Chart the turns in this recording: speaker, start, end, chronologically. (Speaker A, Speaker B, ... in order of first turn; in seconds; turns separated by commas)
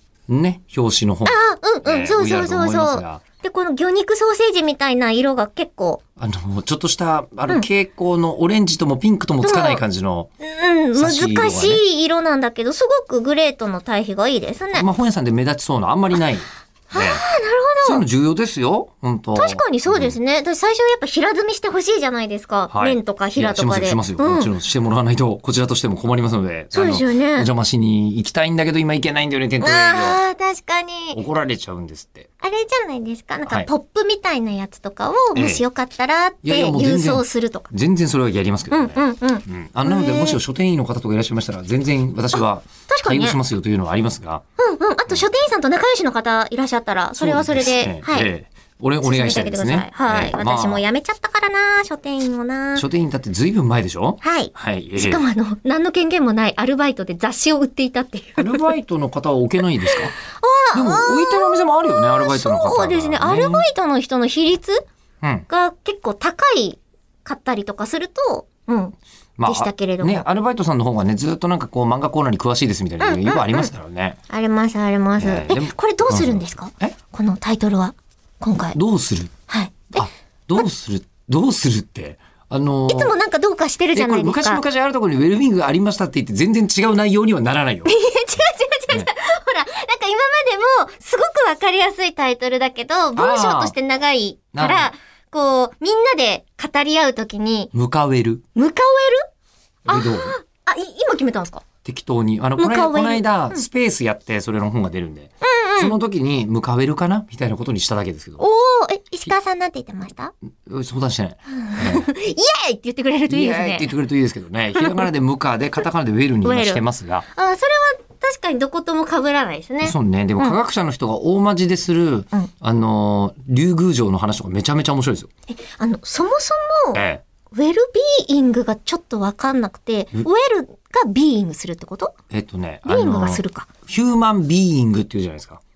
Speaker A: 0.3-3.2, Speaker B: 1.3-6.0, Speaker A: 6.2-10.3, Speaker B: 9.4-9.8, Speaker B: 10.4-14.9, Speaker A: 11.0-11.8, Speaker A: 14.7-17.2, Speaker B: 16.9-18.1, Speaker A: 17.8-20.2, Speaker B: 19.4-24.5, Speaker A: 22.7-30.2, Speaker B: 26.7-27.5, Speaker B: 29.6-31.2, Speaker A: 31.1-32.3, Speaker B: 32.4-37.7, Speaker A: 35.4-35.6, Speaker A: 36.4-44.4, Speaker B: 38.7-40.4, Speaker B: 42.3-43.4, Speaker B: 44.6-48.3, Speaker A: 47.2-50.8, Speaker B: 49.0-52.9, Speaker A: 52.8-55.2, Speaker B: 54.2-58.7, Speaker A: 58.4-60.1, Speaker B: 59.8-64.8, Speaker A: 60.7-63.6, Speaker B: 65.5-70.3, Speaker A: 69.4-74.2, Speaker B: 73.0-73.7, Speaker B: 74.3-78.8, Speaker A: 75.2-77.0, Speaker A: 78.8-79.3, Speaker B: 79.5-80.0, Speaker A: 80.0-83.1, Speaker B: 82.9-84.6, Speaker A: 83.9-87.9, Speaker B: 87.8-97.7, Speaker A: 93.2-93.8, Speaker A: 94.5-94.9, Speaker A: 97.7-98.4, Speaker B: 98.5-99.2, Speaker A: 99.9-100.3, Speaker B: 99.9-101.6, Speaker A: 101.8-108.4, Speaker B: 102.6-103.6, Speaker B: 105.4-106.0, Speaker B: 108.4-110.3, Speaker A: 110.7-112.1, Speaker B: 111.5-113.9, Speaker A: 113.3-117.3, Speaker B: 114.8-115.1, Speaker B: 116.4-116.8, Speaker B: 117.3-120.6, Speaker A: 119.8-125.3, Speaker B: 125.5-127.0, Speaker A: 126.9-127.2, Speaker B: 127.5-132.2, Speaker A: 132.3-135.6, Speaker B: 132.9-133.7